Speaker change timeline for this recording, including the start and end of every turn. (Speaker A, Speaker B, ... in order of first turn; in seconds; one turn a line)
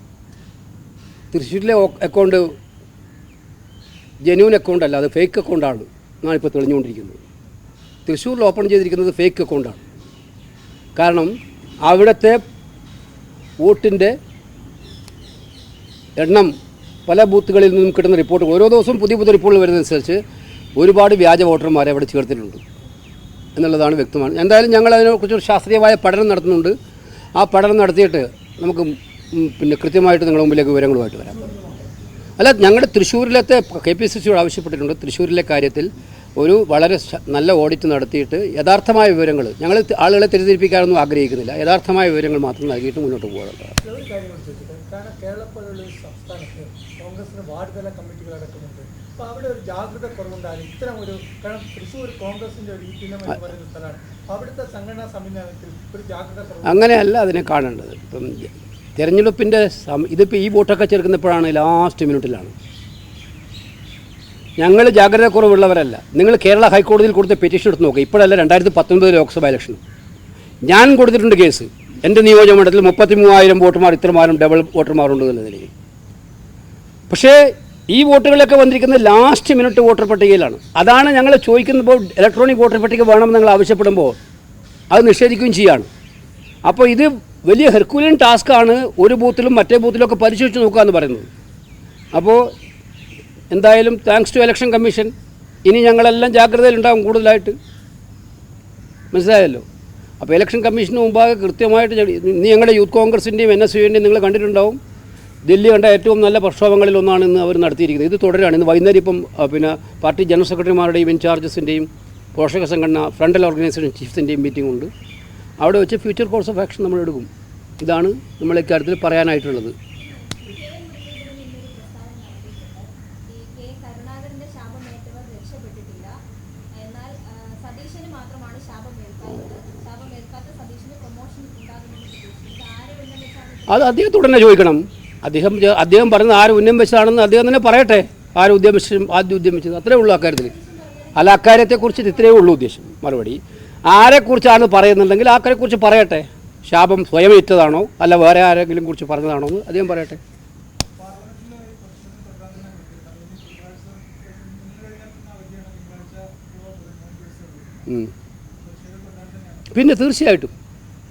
Speaker A: 1.3-2.5
Speaker A: 4.2-7.2
Speaker A: 8.1-9.8
Speaker A: 10.9-12.4
Speaker A: 13.6-14.2
Speaker A: 16.2-16.5
Speaker A: 17.1-20.2
Speaker A: 20.8-22.6
Speaker A: 23.6-26.7
Speaker A: 27.3-31.5
Speaker A: 32.4-43.8
Speaker B: 43.8-56.9
Speaker A: 56.6-62.5
Speaker A: 64.6-69.8
Speaker A: 70.6-75.7
Speaker A: 77.1-84.2
Speaker A: 84.9-85.9
Speaker A: 86.6-91.3
Speaker A: 92.1-92.5
Speaker A: 93.5-95.1
Speaker A: 95.6-97.6
Speaker A: 99.1-99.6
Speaker A: 100.2-104.8
Speaker A: 105.4-114.9
Speaker A: 115.6-117.3
Speaker A: 117.8-119.8
Speaker C: 120.0-126.2
Speaker C: 126.7-134.2
Speaker A: 133.7-140.5
Speaker C: 140.1-142.6
Speaker A: 141.1-150.2
Speaker B: 150.9-157.9
Speaker B: 158.6-160.0
Speaker A: 159.7-160.5